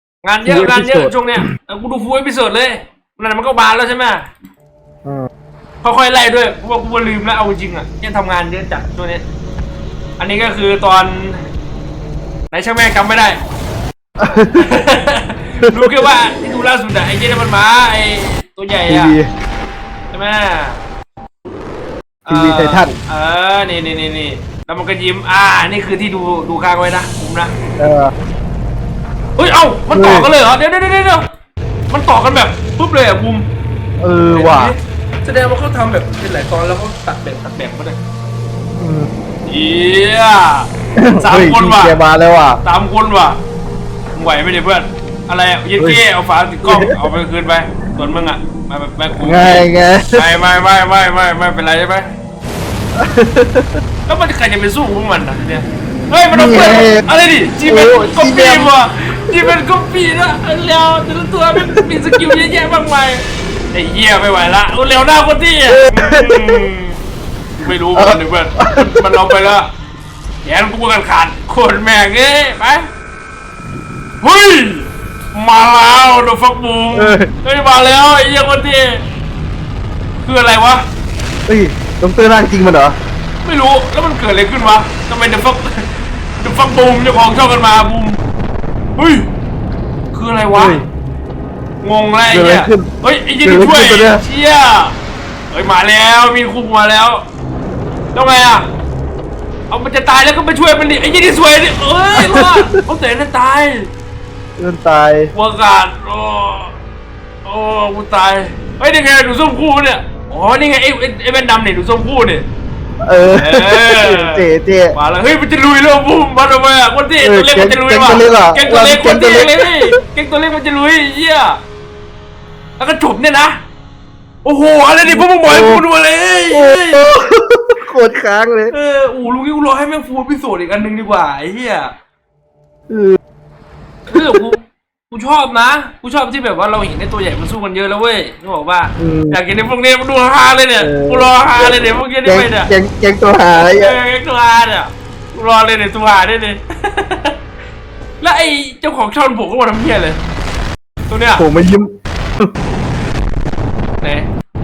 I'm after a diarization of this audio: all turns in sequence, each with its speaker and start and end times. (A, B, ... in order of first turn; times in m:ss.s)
0:00.2-0:04.3 A
0:00.4-0:01.5 B
0:05.8-0:09.2 A
0:10.2-0:11.4 A
0:12.5-0:13.4 A
0:14.2-0:14.8 B
0:14.6-0:19.2 A
0:18.9-0:19.3 B
0:20.1-0:20.8 A
0:22.2-0:27.5 A
0:22.3-0:23.0 B
0:27.8-0:28.1 B
0:29.4-0:31.3 A
0:29.9-0:30.3 B
0:31.9-0:33.5 A
0:34.0-0:34.7 B
0:34.3-0:38.0 A
0:38.8-0:39.1 B
0:39.5-0:42.0 A
0:41.0-0:42.6 B
0:42.6-0:43.4 A
0:44.1-0:52.1 A
0:45.8-0:46.0 B
0:46.7-0:47.0 B
0:49.2-0:50.2 B
0:53.0-0:53.6 B
0:54.1-1:07.0 A
0:56.3-0:57.0 B
0:57.6-0:58.7 B
1:05.7-1:06.7 B
1:07.6-1:09.7 A
1:07.9-1:09.3 B
1:10.4-1:12.9 A
1:14.2-1:19.0 A
1:16.9-1:17.3 B
1:20.2-1:20.8 A
1:21.5-1:23.0 B
1:23.4-1:28.2 A
1:29.0-1:29.3 A
1:30.1-1:30.8 A
1:30.5-1:30.8 B
1:31.8-1:34.9 A
1:32.3-1:32.9 B
1:33.4-1:34.2 B
1:35.5-1:37.2 A
1:38.1-1:38.7 A
1:39.7-1:43.9 A
1:42.1-1:42.7 B
1:44.6-1:45.3 B
1:45.3-1:46.8 A
1:47.4-1:52.4 A
1:53.1-1:54.9 B
1:53.3-2:01.6 A
1:57.2-1:59.9 B
2:02.8-2:03.6 A
2:04.4-2:07.1 A
2:05.0-2:05.8 B
2:06.5-2:08.7 B
2:08.7-2:11.9 A
2:12.9-2:13.2 B
2:14.1-2:14.6 A
2:14.1-2:14.4 B
2:15.1-2:22.7 A
2:19.0-2:19.4 B
2:20.8-2:24.0 B
2:23.5-2:27.4 A
2:28.2-2:30.2 A
2:31.1-2:31.4 A
2:31.4-2:31.9 B
2:34.0-2:34.3 A